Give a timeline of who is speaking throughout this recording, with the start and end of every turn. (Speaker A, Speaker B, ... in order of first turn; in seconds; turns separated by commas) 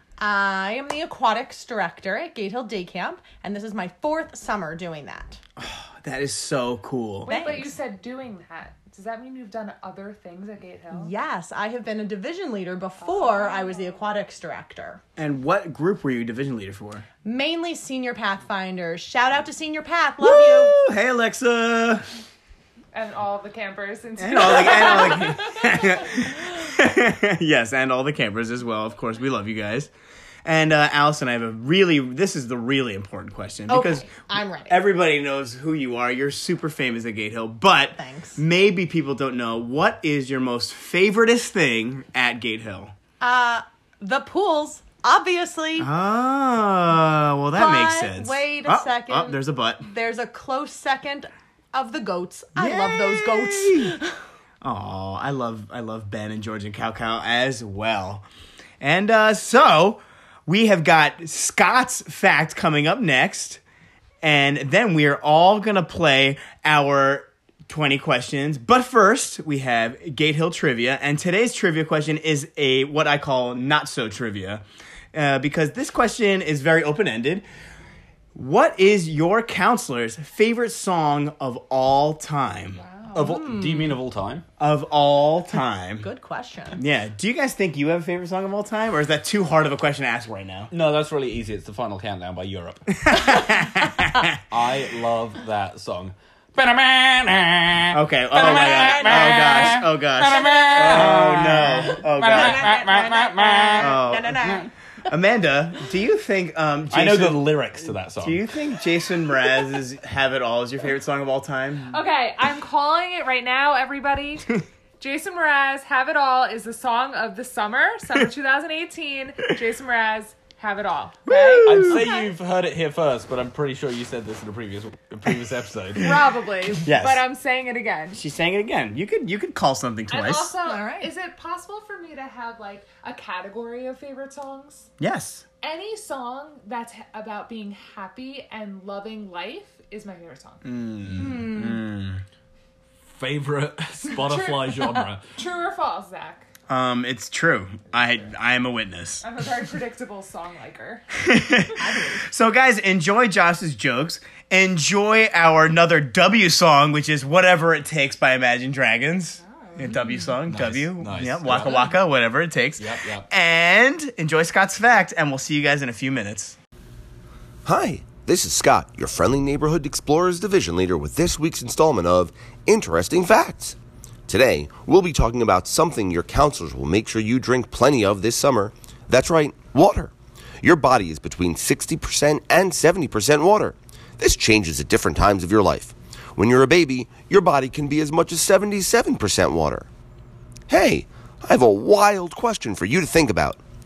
Speaker A: 0.2-5.4, Speaker B: 5.6-7.3, Speaker A: 7.3-7.7, Speaker C: 7.3-11.1, Speaker A: 10.9-15.0, Speaker C: 13.0-14.1, Speaker B: 15.2-17.0, Speaker A: 17.2-20.7, Speaker B: 20.2-22.0, Speaker C: 22.9-26.3, Speaker B: 24.2-29.9, Speaker B: 30.4-42.9, Speaker A: 33.7-34.8, Speaker A: 37.9-38.4, Speaker A: 43.2-45.9, Speaker B: 45.8-49.9, Speaker A: 47.5-54.1, Speaker B: 52.5-53.9, Speaker B: 54.6-58.2, Speaker B: 58.8-63.6, Speaker B: 64.2-77.4, Speaker B: 78.3-82.8, Speaker C: 82.8-83.2, Speaker D: 83.1-84.5, Speaker A: 83.2-84.0, Speaker B: 84.6-86.1, Speaker A: 86.0-86.8, Speaker B: 86.8-90.7, Speaker D: 90.7-93.2, Speaker B: 93.0-94.3, Speaker D: 94.5-104.0, Speaker B: 97.9-102.6, Speaker A: 98.3-99.7, Speaker A: 100.4-100.8, Speaker A: 102.2-104.7, Speaker B: 103.8-104.3, Speaker B: 105.1-112.0, Speaker D: 106.9-108.4, Speaker C: 111.9-121.8, Speaker B: 121.3-122.0, Speaker D: 121.6-126.1, Speaker C: 126.0-128.2, Speaker B: 126.8-127.2, Speaker B: 128.1-130.5, Speaker C: 130.1-134.9, Speaker A: 130.6-131.1, Speaker B: 135.0-135.4, Speaker C: 135.6-140.6, Speaker B: 140.7-142.2, Speaker D: 140.9-141.6, Speaker A: 141.1-141.8, Speaker D: 143.0-145.2, Speaker C: 144.2-146.4, Speaker B: 146.7-149.2, Speaker C: 149.2-151.6, Speaker B: 151.2-166.6, Speaker A: 151.8-152.3, Speaker C: 159.4-160.2, Speaker D: 160.4-161.9, Speaker C: 161.6-161.9, Speaker D: 162.8-163.3, Speaker E: 167.6-189.9, Speaker E: 190.7-193.6